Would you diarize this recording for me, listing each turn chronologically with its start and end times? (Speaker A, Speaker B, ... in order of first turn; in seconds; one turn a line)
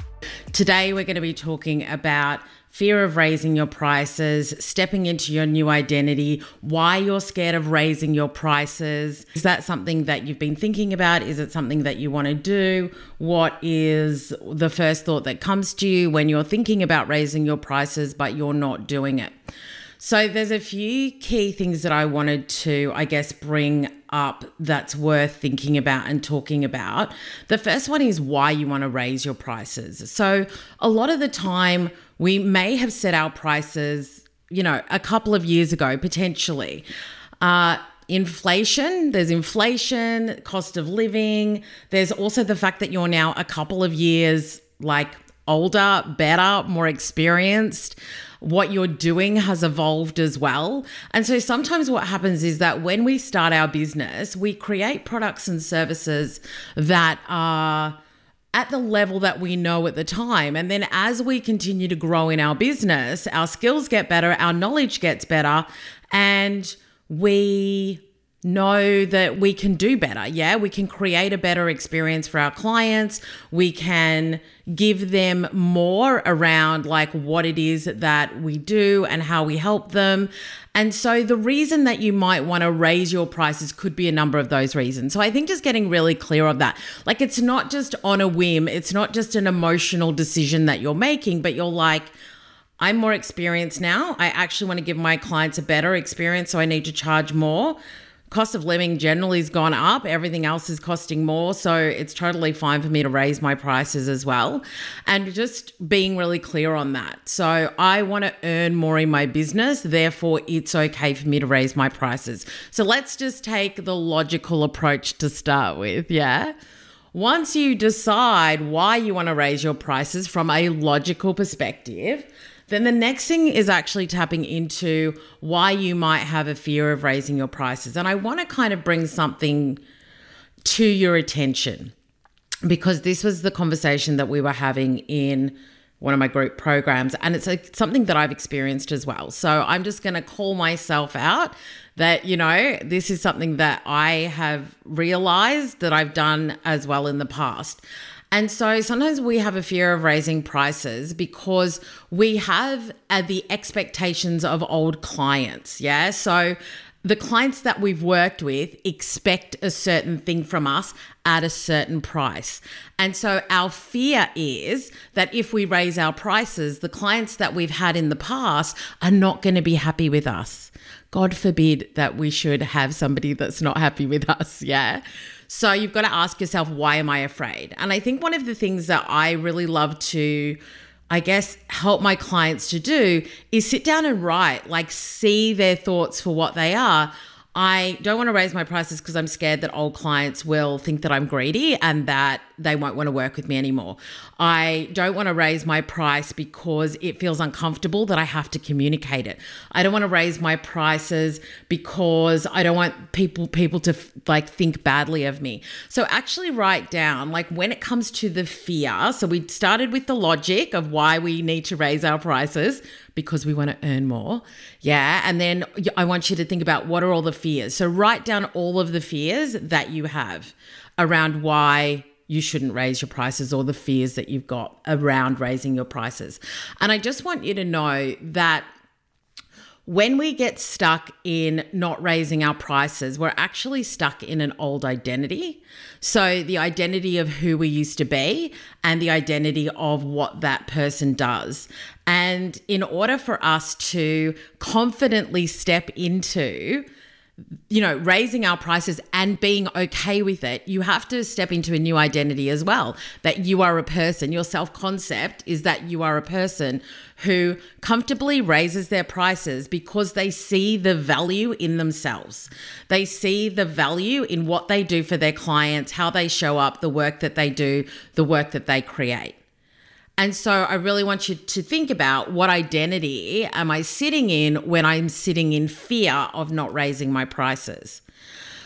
Speaker A: 0.5-19.3
Speaker A: 20.0-36.9
Speaker A: 37.4-58.0
Speaker A: 58.5-92.1
Speaker A: 92.8-97.8
Speaker A: 98.3-116.5
Speaker A: 117.1-129.8
Speaker A: 130.7-131.9
Speaker A: 132.7-180.6
Speaker A: 181.1-228.7
Speaker A: 229.9-246.9
Speaker A: 247.7-269.4
Speaker A: 270.2-278.0